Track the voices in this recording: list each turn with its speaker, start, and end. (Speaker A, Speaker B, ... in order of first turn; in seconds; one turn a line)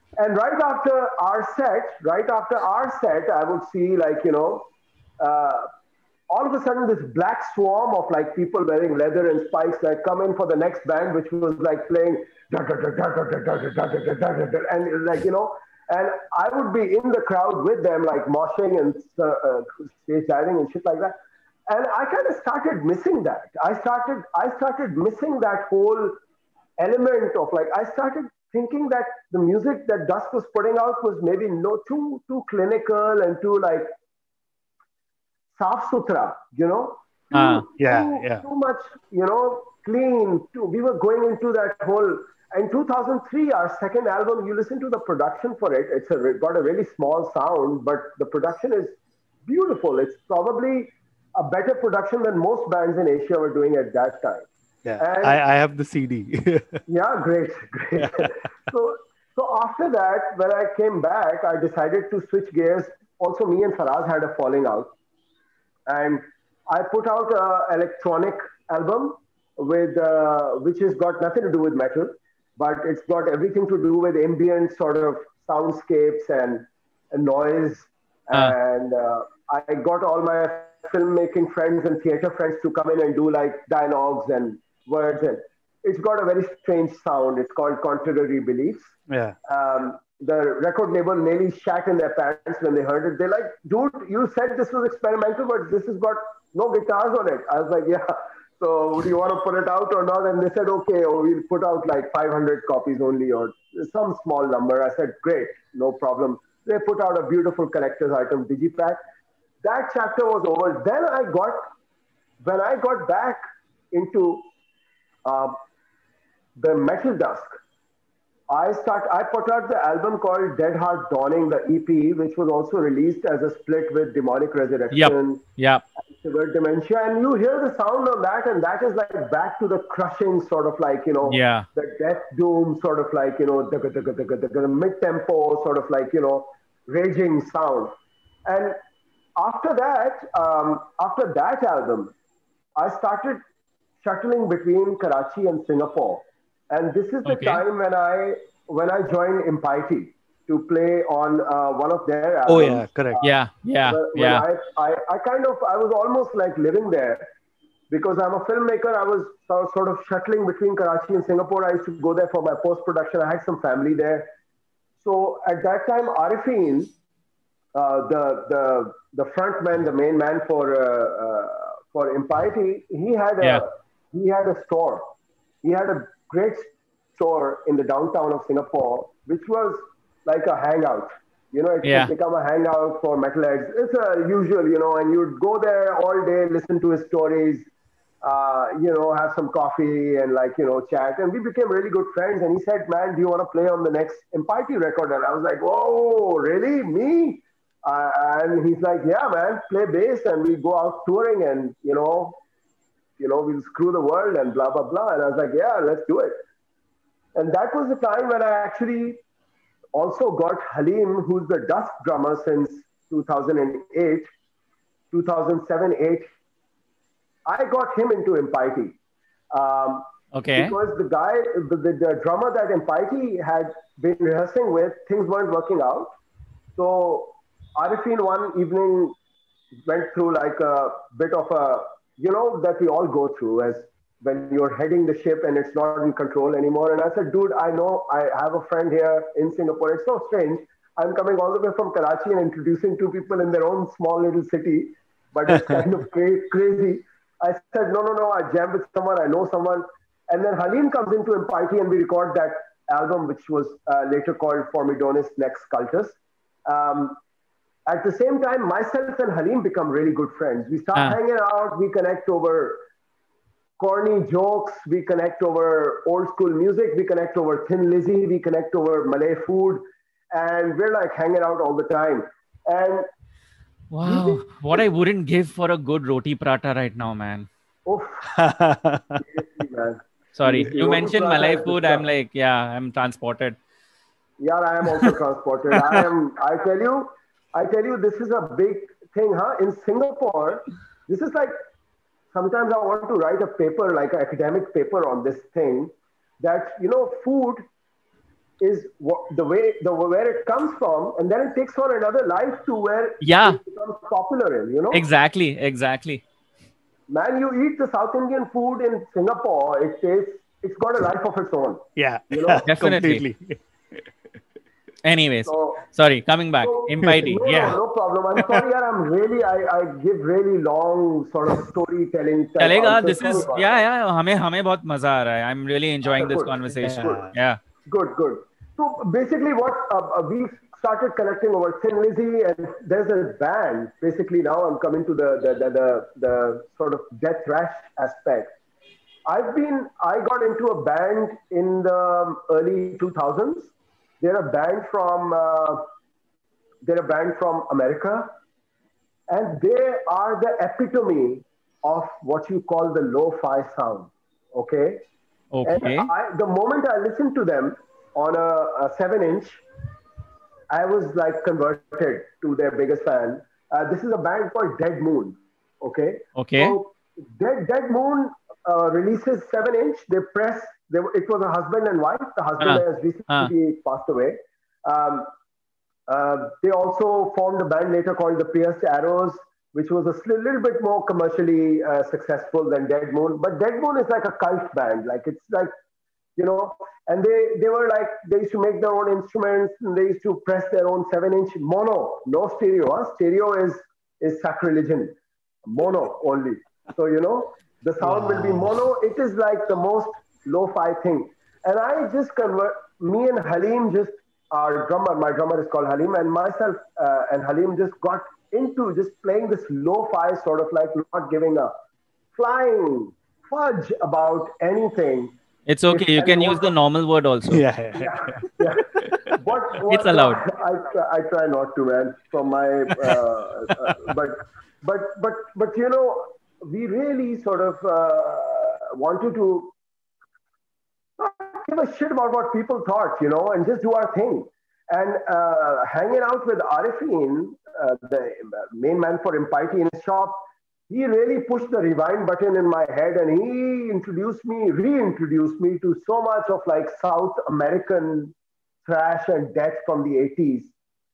Speaker A: 0.2-4.7
Speaker A: 5.2-5.7
Speaker A: 6.3-21.1
Speaker A: 21.7-26.2
Speaker A: 26.8-33.9
Speaker A: 35.5-55.4
Speaker B: 37.3-37.6
Speaker C: 37.8-38.4
Speaker C: 54.8-56.8
Speaker A: 56.9-64.9
Speaker C: 58.0-58.2
Speaker A: 65.9-88.9
Speaker C: 89.1-89.3
Speaker A: 89.4-109.0
Speaker A: 109.6-111.6
Speaker A: 112.4-114.5
Speaker A: 115.2-115.6
Speaker A: 116.5-117.6
Speaker A: 118.5-125.4
Speaker B: 124.9-125.8
Speaker A: 126.0-137.9
Speaker B: 131.2-131.7
Speaker A: 138.4-138.8
Speaker A: 139.4-142.1
Speaker A: 142.8-143.4
Speaker A: 144.0-157.2
Speaker B: 147.2-147.6
Speaker C: 152.5-153.2
Speaker B: 153.2-154.4
Speaker A: 157.9-164.3
Speaker A: 165.0-166.9
Speaker A: 167.7-175.1
Speaker A: 175.6-187.7
Speaker B: 181.8-182.1
Speaker A: 188.2-202.4
Speaker A: 203.2-206.3
Speaker A: 207.3-209.2
Speaker A: 209.9-214.3
Speaker A: 215.1-216.3
Speaker A: 217.5-219.0
Speaker A: 219.5-226.1
Speaker B: 220.3-220.8
Speaker A: 226.8-229.2
Speaker A: 229.8-257.2
Speaker A: 257.9-262.8
Speaker A: 263.8-273.1
Speaker B: 273.9-277.5
Speaker A: 274.0-274.8
Speaker A: 277.9-278.3
Speaker C: 278.3-279.2
Speaker A: 279.2-282.0
Speaker B: 280.3-283.6
Speaker A: 284.4-291.6
Speaker A: 292.3-297.6
Speaker A: 298.6-305.0
Speaker B: 303.2-303.6
Speaker B: 304.9-306.2
Speaker A: 307.1-312.6
Speaker C: 311.9-314.0
Speaker B: 312.6-313.2
Speaker B: 315.0-317.8
Speaker A: 315.4-315.8
Speaker A: 316.6-323.8
Speaker B: 322.6-327.6
Speaker A: 326.1-327.3
Speaker C: 326.8-327.3
Speaker A: 327.9-338.5
Speaker A: 339.2-345.8
Speaker A: 346.8-348.3
Speaker A: 349.3-355.1
Speaker B: 355.5-356.1
Speaker A: 355.6-359.6
Speaker A: 360.7-375.3
Speaker B: 366.4-366.8
Speaker B: 372.6-373.5
Speaker A: 376.1-385.7
Speaker A: 386.4-411.7
Speaker C: 398.0-398.7
Speaker A: 412.3-415.4
Speaker B: 415.7-417.6
Speaker A: 415.9-416.6
Speaker C: 417.4-419.4
Speaker A: 417.9-429.7
Speaker B: 419.8-420.4
Speaker A: 431.2-450.7